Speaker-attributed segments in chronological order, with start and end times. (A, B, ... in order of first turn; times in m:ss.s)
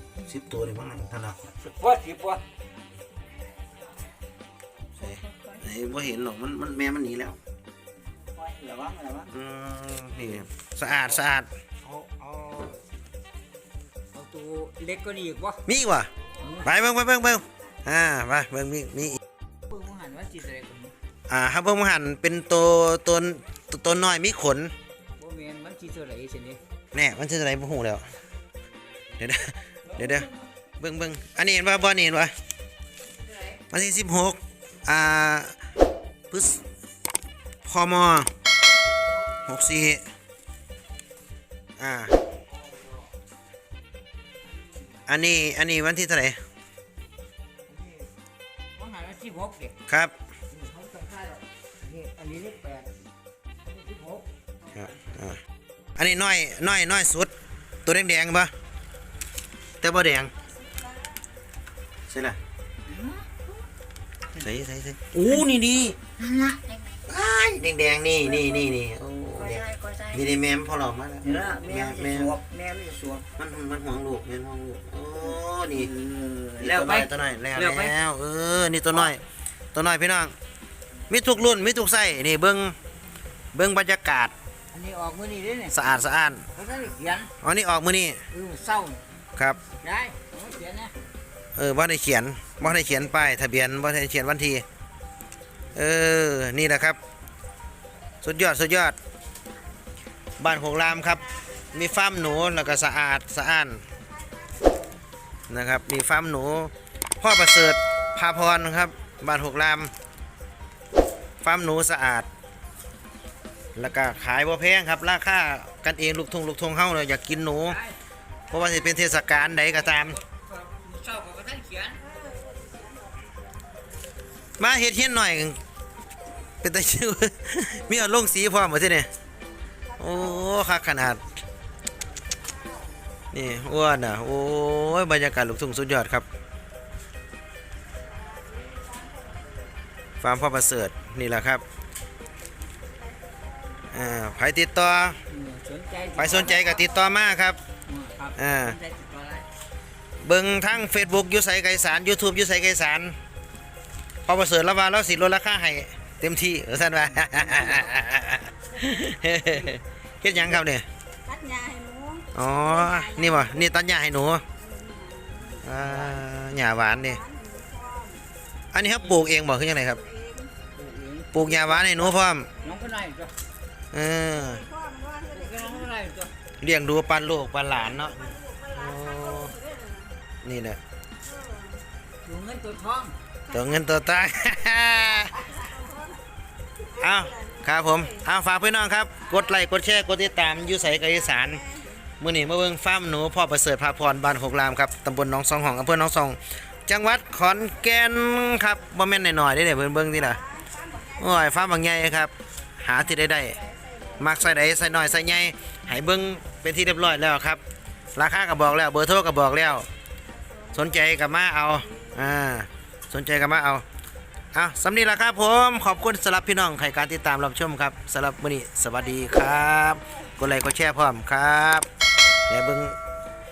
0:00.2-0:01.5 A
0:01.6-0:02.4 B
0:04.9-0:05.6 B
0:05.0-0:07.4 A
0:08.2-0:09.3 B
0:09.3-0:11.5 A
0:11.8-0:12.8 B
0:14.1-0:15.6 B
0:15.6-0:16.1 A
0:16.4-0:16.7 B
0:16.6-0:19.2 A
0:19.7-0:21.0 B
0:21.3-0:24.7 A
0:25.2-0:26.6 B
0:26.9-0:28.0 A
0:29.2-0:30.3 A
0:29.8-0:30.5 B
0:30.8-0:32.3 A
0:33.1-0:33.6 B
0:33.7-0:35.5 A
0:36.3-0:36.6 A
0:37.6-0:38.3 A
0:39.4-0:40.0 A
0:41.8-0:42.2 A
0:42.5-0:43.1 B
0:44.5-0:45.0 B
0:45.1-0:46.4 A
0:47.7-0:48.1 B
0:48.8-0:49.8 B
0:49.9-0:50.1 A
0:50.5-0:53.0 B
0:53.6-0:54.3 B
0:54.7-0:55.4 A
0:56.0-0:57.3 A
0:57.8-0:58.5 A
0:59.8-1:00.3 A
1:02.1-1:02.4 A
1:02.8-1:03.4 B
1:04.3-1:06.0 A
1:05.2-1:07.0 B
1:07.0-1:12.4 A
1:08.2-1:08.8 B
1:09.3-1:10.3 B
1:11.2-1:13.3 B
1:13.4-1:15.9 A
1:15.3-1:18.0 B
1:16.6-1:19.2 A
1:19.7-1:20.3 A
1:21.1-1:22.7 A
1:23.5-1:24.3 A
1:24.7-1:25.9 B
1:25.7-1:26.4 A
1:26.5-1:27.3 B
1:27.4-1:28.2 A
1:28.3-1:29.0 B
1:29.8-1:30.9 B
1:31.6-1:34.6 A
1:35.7-1:37.0 A
1:38.2-1:39.0 A
1:40.4-1:43.8 A
1:45.5-1:49.9 A
1:51.4-1:52.3 A
1:53.8-1:57.8 A
1:57.4-1:58.0 B
1:58.5-2:00.2 A
1:59.6-2:02.1 B
2:02.1-2:03.4 C
2:04.6-2:05.6 A
2:06.6-2:09.1 A
2:10.0-2:11.3 A
2:12.5-2:12.9 C
2:13.3-2:16.3 A
2:18.1-2:19.7 C
2:20.2-2:21.6 A
2:23.0-2:23.7 C
2:23.9-2:25.2 A
2:25.3-2:26.7 B
2:26.2-2:27.6 A
2:27.8-2:29.5 B
2:28.4-2:28.8 A
2:30.2-2:33.2 A
2:34.2-2:40.8 A
2:37.1-2:37.9 B
2:39.4-2:39.7 B
2:41.3-2:42.2 C
2:42.3-2:44.4 A
2:44.6-2:45.2 C
2:45.3-2:46.2 B
2:45.6-2:47.2 A
2:47.2-2:48.2 C
2:48.7-2:50.0 A
2:48.8-2:49.3 B
2:50.1-2:50.4 C
2:50.6-2:53.3 B
2:51.3-2:52.5 A
2:53.9-2:54.7 A
2:54.7-2:55.2 C
2:55.3-2:56.3 B
2:56.6-2:59.6 A
2:59.5-3:00.1 C
3:00.4-3:00.8 A
3:01.3-3:01.7 C
3:02.2-3:03.2 B
3:03.5-3:05.6 A
3:05.7-3:06.1 C
3:07.0-3:20.4 A
3:20.7-3:21.0 C
3:21.2-3:23.6 A
3:24.2-3:27.6 A
3:28.1-3:29.9 A
3:30.7-3:33.8 A
3:34.5-3:41.8 A
3:42.5-3:43.0 A